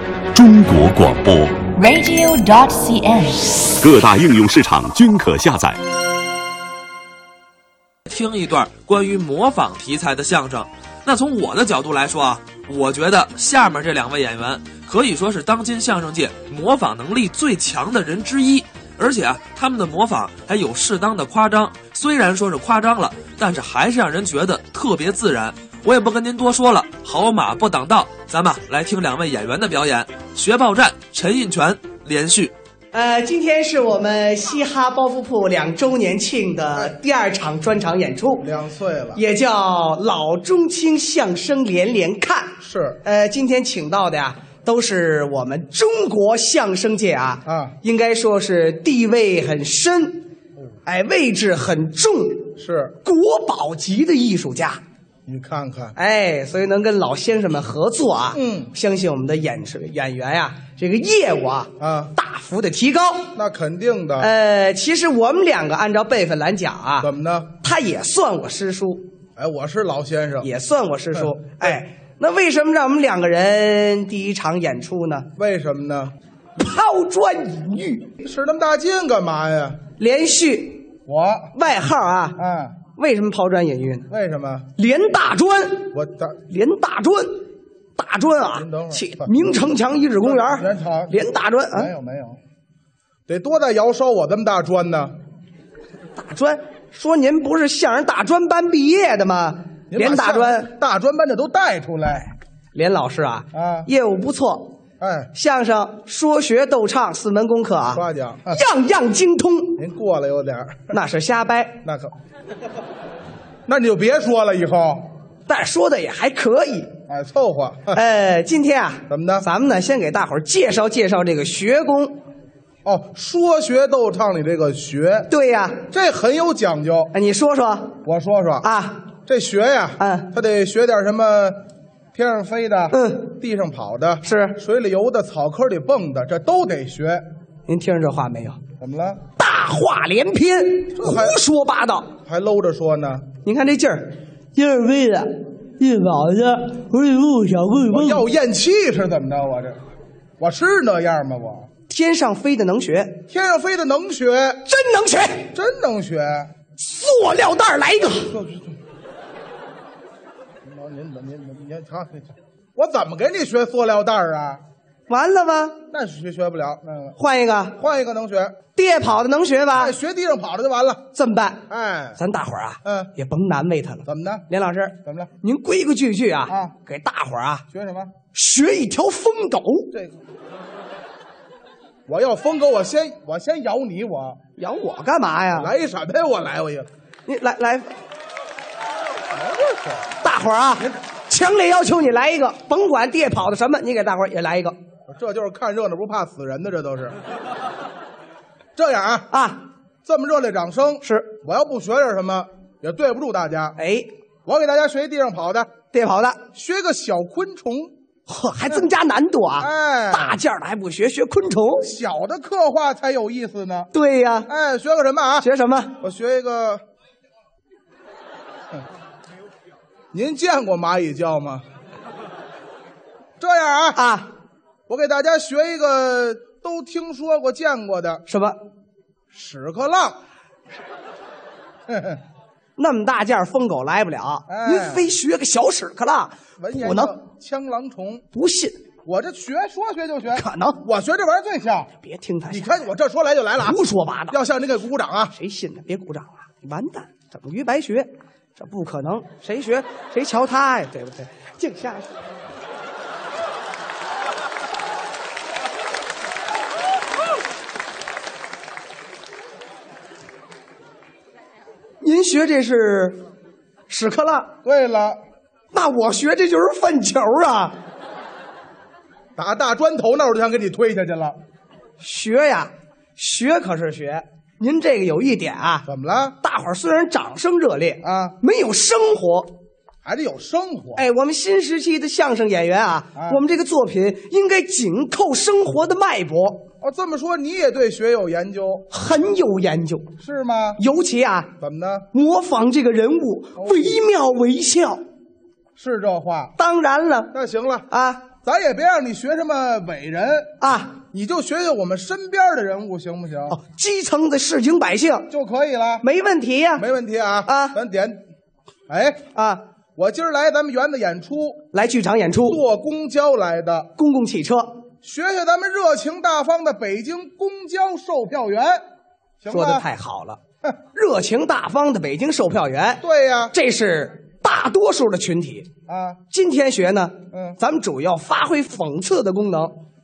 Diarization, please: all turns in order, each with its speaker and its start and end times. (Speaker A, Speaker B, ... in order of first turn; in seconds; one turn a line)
Speaker A: 0.3-1.7
Speaker B: 1.7-3.8
Speaker A: 3.8-5.8
Speaker C: 8.1-32.5
Speaker D: 32.9-38.5
Speaker E: 38.4-39.2
Speaker D: 39.1-50.3
Speaker E: 42.6-43.0
Speaker E: 47.5-47.8
Speaker D: 50.9-54.8
Speaker E: 52.6-53.0
Speaker E: 55.3-56.0
Speaker D: 56.0-63.3
Speaker E: 58.3-58.7
Speaker E: 61.8-62.1
Speaker E: 63.4-64.3
Speaker D: 64.2-69.1
Speaker E: 67.0-67.5
Speaker E: 69.4-70.5
Speaker D: 70.4-75.3
Speaker E: 71.1-71.8
Speaker E: 75.4-76.1
Speaker D: 76.6-78.2
Speaker E: 78.2-79.8
Speaker D: 80.0-80.9
Speaker E: 81.1-81.5
Speaker D: 81.5-82.4
Speaker E: 82.4-82.8
Speaker D: 82.9-84.1
Speaker E: 84.1-84.7
Speaker D: 84.8-85.9
Speaker E: 85.9-86.4
Speaker D: 86.5-91.9
Speaker E: 88.5-89.5
Speaker E: 90.2-91.2
Speaker E: 91.7-92.4
Speaker E: 93.3-95.2
Speaker D: 96.1-100.7
Speaker E: 99.9-102.3
Speaker D: 102.7-104.8
Speaker E: 103.5-103.9
Speaker E: 105.0-105.3
Speaker D: 105.3-109.8
Speaker E: 107.9-108.6
Speaker E: 109.8-111.0
Speaker D: 110.9-111.8
Speaker E: 111.8-112.1
Speaker E: 113.7-115.1
Speaker D: 115.5-116.9
Speaker E: 117.1-118.0
Speaker D: 117.9-122.2
Speaker E: 119.1-119.5
Speaker E: 122.8-125.3
Speaker D: 125.3-125.8
Speaker E: 125.9-127.1
Speaker D: 127.1-128.0
Speaker E: 128.0-128.7
Speaker D: 128.6-129.1
Speaker E: 129.3-131.6
Speaker D: 130.0-130.3
Speaker E: 132.1-137.3
Speaker D: 132.9-133.3
Speaker D: 134.2-134.6
Speaker D: 137.7-138.6
Speaker E: 138.8-139.2
Speaker D: 139.4-142.1
Speaker E: 140.9-141.4
Speaker E: 142.2-143.3
Speaker D: 143.4-148.2
Speaker E: 147.9-149.8
Speaker E: 150.4-151.7
Speaker D: 151.9-153.2
Speaker E: 153.3-154.7
Speaker D: 154.7-155.5
Speaker E: 155.5-156.5
Speaker D: 156.8-158.3
Speaker E: 158.0-158.8
Speaker E: 160.7-164.6
Speaker D: 165.1-165.8
Speaker E: 165.9-167.2
Speaker D: 167.2-167.8
Speaker E: 167.8-168.6
Speaker D: 168.7-170.0
Speaker E: 169.8-171.1
Speaker D: 171.1-171.6
Speaker E: 171.7-172.2
Speaker D: 172.2-177.7
Speaker E: 172.8-173.1
Speaker E: 174.1-174.5
Speaker E: 175.0-175.3
Speaker E: 176.5-176.8
Speaker E: 177.7-178.1
Speaker D: 178.3-179.9
Speaker E: 179.9-180.2
Speaker E: 182.1-184.4
Speaker D: 184.6-185.7
Speaker E: 185.5-186.9
Speaker D: 187.3-187.9
Speaker E: 189.4-190.0
Speaker D: 190.2-194.8
Speaker E: 195.1-197.2
Speaker E: 198.8-199.3
Speaker D: 199.3-199.7
Speaker E: 200.1-203.8
Speaker D: 201.0-201.3
Speaker D: 203.8-204.1
Speaker E: 204.4-205.7
Speaker D: 205.9-206.4
Speaker E: 206.5-207.9
Speaker D: 208.3-211.9
Speaker E: 209.6-210.4
Speaker E: 211.8-213.9
Speaker D: 213.9-214.5
Speaker E: 214.5-216.8
Speaker D: 215.4-215.9
Speaker E: 220.1-221.6
Speaker E: 223.4-224.0
Speaker D: 223.9-224.3
Speaker E: 224.9-228.2
Speaker D: 228.3-228.6
Speaker E: 229.3-230.2
Speaker E: 231.9-232.2
Speaker D: 232.8-237.1
Speaker E: 234.5-235.1
Speaker E: 236.6-238.2
Speaker D: 238.3-238.8
Speaker E: 239.1-241.9
Speaker D: 240.3-240.8
Speaker D: 242.0-242.9
Speaker E: 242.5-243.8
Speaker D: 243.6-244.4
Speaker E: 244.3-245.3
Speaker D: 245.3-252.2
Speaker D: 262.0-263.2
Speaker D: 263.9-264.5
Speaker E: 264.6-265.2
Speaker D: 265.7-267.8
Speaker E: 269.4-271.4
Speaker D: 272.0-275.9
Speaker E: 275.9-276.4
Speaker D: 276.4-279.5
Speaker E: 278.0-278.4
Speaker E: 280.1-281.1
Speaker D: 281.0-286.7
Speaker E: 283.2-283.4
Speaker E: 286.8-288.9
Speaker D: 288.9-290.1
Speaker E: 290.2-290.8
Speaker D: 290.8-291.5
Speaker E: 291.6-292.1
Speaker D: 292.1-295.0
Speaker E: 293.6-294.0
Speaker E: 295.8-296.6
Speaker D: 296.6-297.3
Speaker E: 297.3-297.9
Speaker D: 297.9-298.3
Speaker E: 298.4-300.6
Speaker D: 300.6-301.0
Speaker E: 301.1-303.6
Speaker D: 303.5-305.3
Speaker E: 305.3-306.1
Speaker D: 306.0-306.9
Speaker E: 306.8-308.2
Speaker D: 307.5-307.8
Speaker E: 308.9-309.3
Speaker D: 309.3-309.7
Speaker E: 310.0-311.7
Speaker D: 311.7-312.6
Speaker E: 312.5-313.9
Speaker D: 314.0-314.8
Speaker E: 315.0-318.8
Speaker E: 319.4-319.9
Speaker D: 319.5-320.4
Speaker D: 320.9-325.7
Speaker E: 323.0-323.5
Speaker E: 325.9-326.2
Speaker D: 326.3-329.8
Speaker E: 327.3-327.6